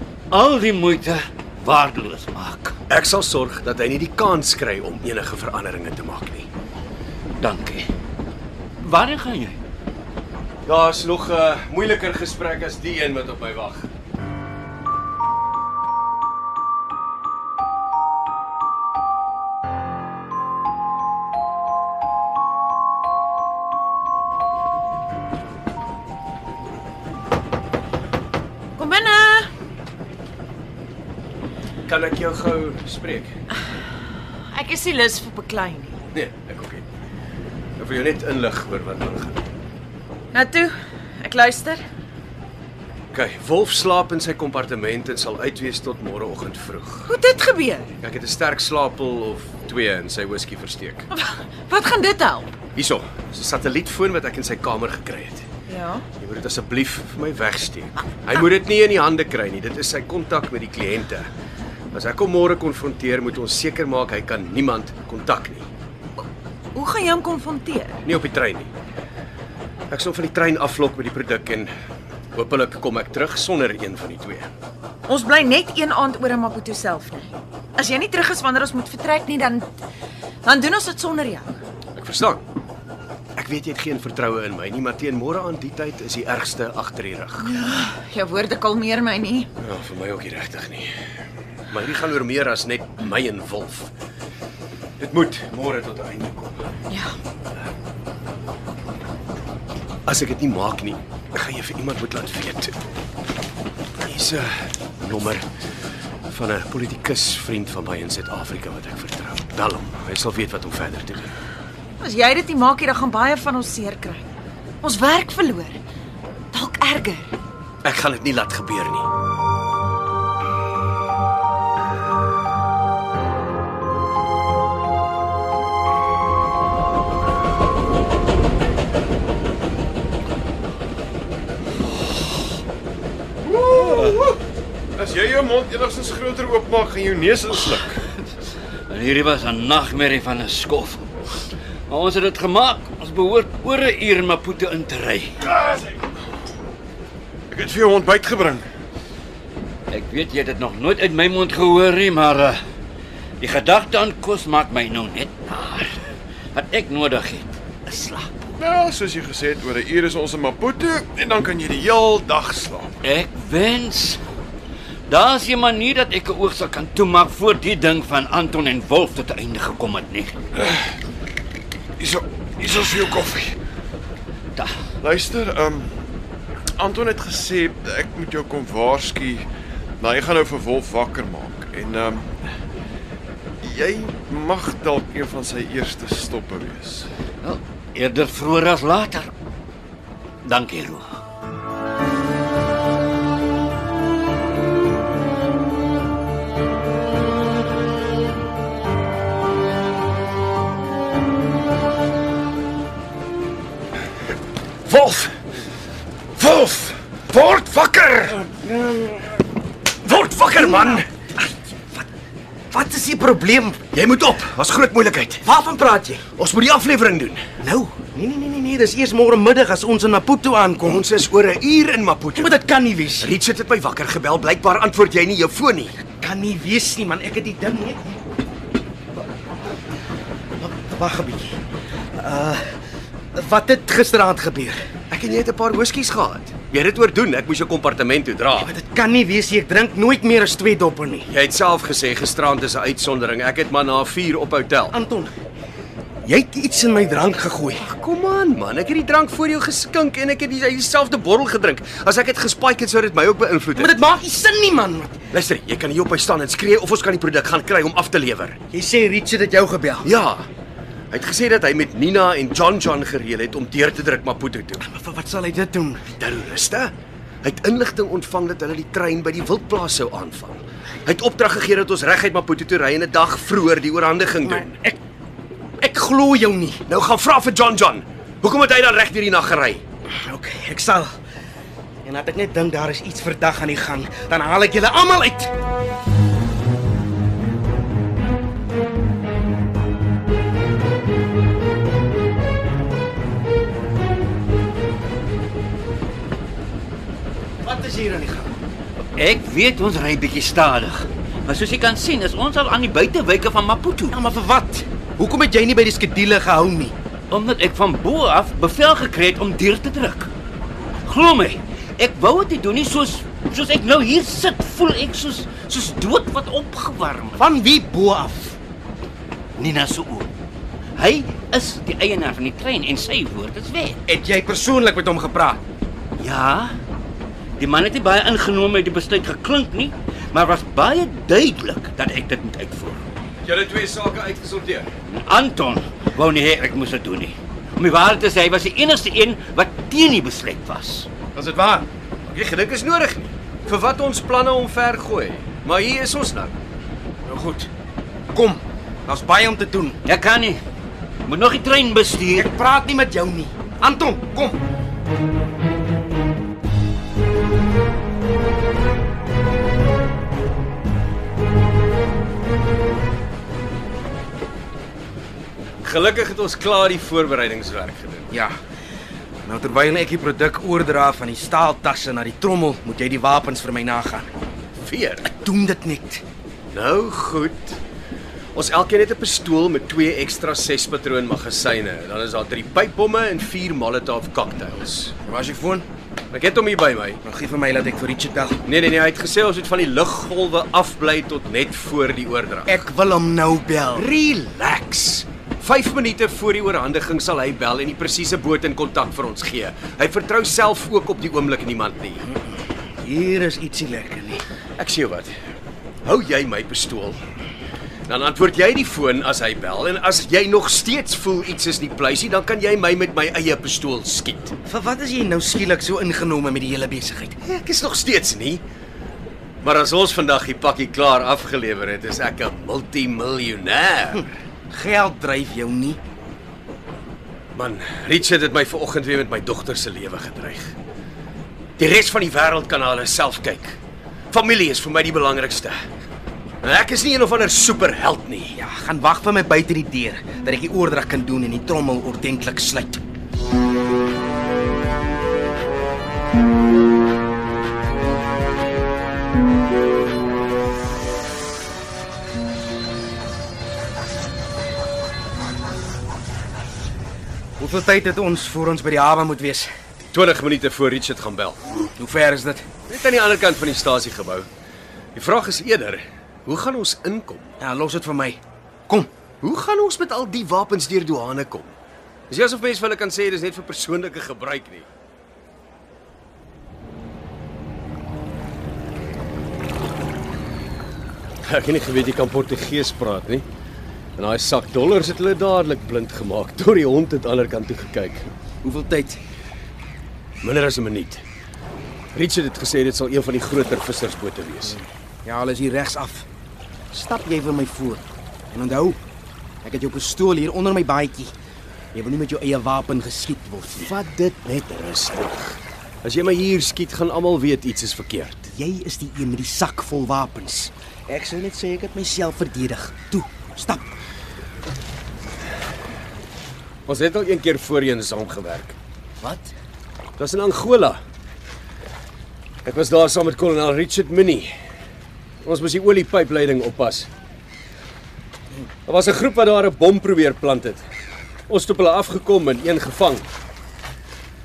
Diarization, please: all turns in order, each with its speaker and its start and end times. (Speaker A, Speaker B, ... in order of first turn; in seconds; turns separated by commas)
Speaker A: 0.3-2.7, Speaker B: 2.9-6.5, Speaker A: 7.4-7.8, Speaker A: 8.8-9.6, Speaker B: 10.6-13.9, Speaker C: 28.8-29.5, Speaker B: 31.9-33.3, Speaker C: 34.5-36.0, Speaker B: 36.1-36.8, Speaker B: 37.8-39.4, Speaker C: 40.3-41.8, Speaker B: 43.1-47.1, Speaker C: 47.1-47.9, Speaker B: 48.0-51.1, Speaker C: 51.1-52.6, Speaker B: 52.7-55.5, Speaker C: 55.7-56.0, Speaker B: 56.2-61.3, Speaker B: 61.9-65.7, Speaker C: 66.7-68.0, Speaker B: 68.0-68.7, Speaker B: 69.9-71.7, Speaker B: 72.3-74.5, Speaker C: 75.1-79.7, Speaker C: 80.4-81.5, Speaker B: 81.9-82.4, Speaker B: 83.3-87.5, Speaker C: 87.4-89.5, Speaker B: 89.6-90.9, Speaker B: 91.7-93.9, Speaker B: 95.0-96.6, Speaker B: 100.0-102.8, Speaker B: 104.0-105.4, Speaker B: 106.3-111.3, Speaker C: 112.0-114.2, Speaker C: 114.8-115.8, Speaker C: 116.5-117.3, Speaker B: 117.8-119.1, Speaker D: 133.5-134.4, Speaker D: 134.9-138.0, Speaker A: 138.9-141.1, Speaker A: 141.9-145.6, Speaker D: 147.5-148.7, Speaker A: 149.9-152.6, Speaker A: 153.4-155.9, Speaker A: 156.5-158.3, Speaker D: 158.6-162.9, Speaker A: 163.0-164.2, Speaker A: 165.1-170.3, Speaker D: 172.0-173.6, Speaker D: 175.0-175.9, Speaker D: 176.8-179.5, Speaker D: 180.0-182.3, Speaker D: 183.6-187.1, Speaker A: 187.4-189.3, Speaker A: 190.4-191.2, Speaker B: 204.8-205.3, Speaker B: 206.3-208.5, Speaker E: 208.6-209.1, Speaker B: 210.0-211.1, Speaker E: 210.7-211.0, Speaker E: 212.7-213.8, Speaker B: 213.9-215.5, Speaker E: 215.4-216.2, Speaker B: 216.3-217.4, Speaker E: 217.6-221.1, Speaker B: 220.8-222.6, Speaker E: 222.3-223.3, Speaker B: 223.2-226.0, Speaker E: 226.1-228.2, Speaker E: 230.6-231.6, Speaker E: 232.2-232.7, Speaker E: 233.3-234.8, Speaker B: 235.1-238.7, Speaker E: 238.6-241.3, Speaker B: 241.3-244.9, Speaker E: 244.9-245.3, Speaker E: 246.2-247.8, Speaker B: 247.8-254.0, Speaker E: 253.8-255.2, Speaker B: 255.3-258.6, Speaker E: 258.7-260.1, Speaker B: 260.0-260.5, Speaker B: 261.1-264.8, Speaker E: 264.8-266.0, Speaker B: 266.2-274.8, Speaker E: 274.4-275.0, Speaker E: 275.8-276.8, Speaker B: 276.9-279.8, Speaker E: 280.1-281.1, Speaker E: 282.0-285.5, Speaker E: 297.6-298.6, Speaker A: 299.1-304.2, Speaker E: 304.1-306.9, Speaker A: 307.3-310.3, Speaker A: 311.1-317.4, Speaker E: 317.4-318.6, Speaker A: 319.6-320.3, Speaker A: 320.9-324.0, Speaker E: 324.1-325.6, Speaker A: 326.2-326.8, Speaker A: 327.6-333.0, Speaker B: 333.4-334.9, Speaker A: 335.1-341.1, Speaker E: 341.3-341.9, Speaker B: 342.3-346.5, Speaker E: 347.3-347.6, Speaker E: 348.3-350.0, Speaker A: 350.0-350.6, Speaker A: 351.2-352.5, Speaker E: 352.3-354.6, Speaker B: 365.8-368.3, Speaker E: 369.4-374.3, Speaker B: 374.8-375.3, Speaker E: 375.2-376.2, Speaker B: 376.7-377.8, Speaker B: 378.5-385.1, Speaker E: 385.2-385.9, Speaker B: 386.3-387.2, Speaker E: 387.2-388.6, Speaker B: 388.6-392.8, Speaker E: 392.6-394.1, Speaker B: 393.9-402.2, Speaker E: 403.0-404.4, Speaker B: 404.8-405.3, Speaker B: 406.0-407.2, Speaker B: 408.1-414.5, Speaker E: 414.6-417.4, Speaker B: 417.4-418.6, Speaker B: 419.6-424.3, Speaker E: 424.7-426.0, Speaker B: 427.5-430.8, Speaker B: 431.8-433.8, Speaker B: 434.3-435.8, Speaker B: 436.6-438.6, Speaker E: 438.5-443.0, Speaker E: 457.6-459.7, Speaker B: 460.1-461.6, Speaker E: 461.9-462.6, Speaker B: 462.9-464.5, Speaker B: 465.1-467.6, Speaker E: 467.6-469.1, Speaker B: 469.4-471.7, Speaker B: 472.3-474.9, Speaker B: 481.4-483.4, Speaker B: 484.2-488.3, Speaker E: 488.6-489.2, Speaker B: 490.4-491.2, Speaker B: 492.1-494.8, Speaker E: 495.2-496.2, Speaker E: 496.9-499.0, Speaker E: 499.6-501.3, Speaker E: 501.9-503.9, Speaker B: 503.8-508.5, Speaker E: 508.5-513.9, Speaker B: 516.9-518.8, Speaker E: 519.2-519.5, Speaker B: 520.2-521.0, Speaker B: 522.6-524.5, Speaker B: 525.4-527.1, Speaker B: 528.9-530.8, Speaker B: 531.5-533.2